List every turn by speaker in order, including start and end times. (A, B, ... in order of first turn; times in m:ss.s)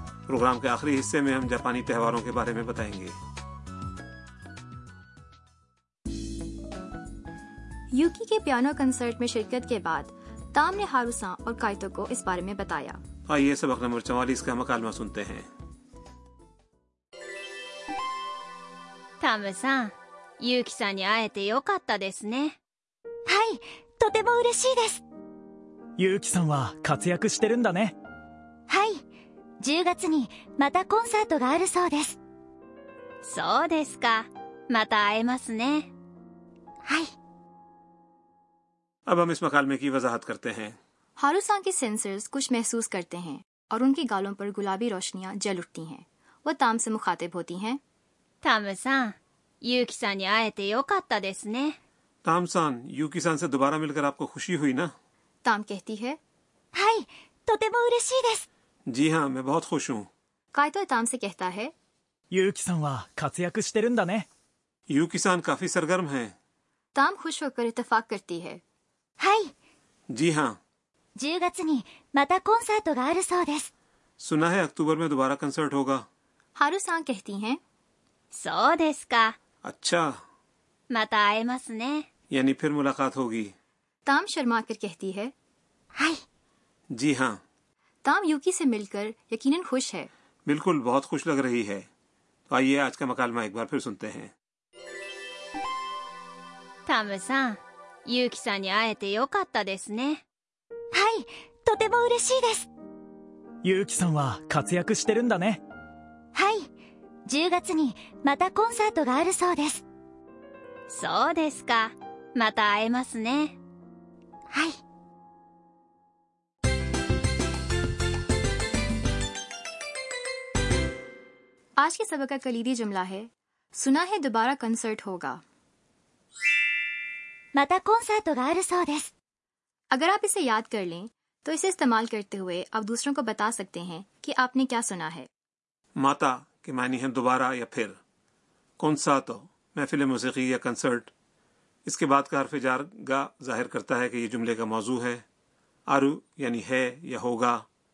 0:00.3-0:03.2 A
0:07.9-0:13.0 B
0:13.3-0:15.5 A
0:19.2-0:22.6 C
0:23.3-0:25.0 D
0:26.0-0:28.0 E
0:28.7-0:29.0 D
0:29.6-0:32.2 D
0:33.2-0:35.9 C
0:39.1-0:40.8 A
0:41.2-0:47.8 B
0:48.4-0:51.8 C
0:52.2-0:54.9 A
0:55.4-0:56.2 B
0:56.7-0:58.4 D
0:58.9-1:00.1 A
1:00.5-1:01.7 B
1:02.3-1:04.3 E
1:04.9-1:06.3 A
1:07.0-1:08.6 B
1:09.2-1:09.5 D
1:10.1-1:10.6 A
1:11.2-1:13.7 D
1:14.2-1:16.1 A
1:16.6-1:17.6 B
1:18.3-1:19.3 C
1:19.6-1:20.2 A
1:20.9-1:22.0 C
1:22.3-1:23.6 A
1:24.1-1:25.3 B
1:26.0-1:26.2 D
1:26.9-1:27.4 A
1:28.0-1:30.1 B
1:30.4-1:31.9 A
1:32.5-1:34.3 A
1:36.9-1:40.2 C
1:40.9-1:42.7 D
1:43.6-1:45.6 E
1:46.3-1:46.7 D
1:47.3-1:49.8 D
1:50.9-1:53.6 C
1:54.5-1:54.8 D
2:01.8-2:05.4 B
2:07.6-2:09.1 D
2:09.9-2:15.3 B
2:16.0-2:18.0 A
2:18.8-2:21.1 A
2:21.8-2:25.2 A
2:25.9-2:27.6 A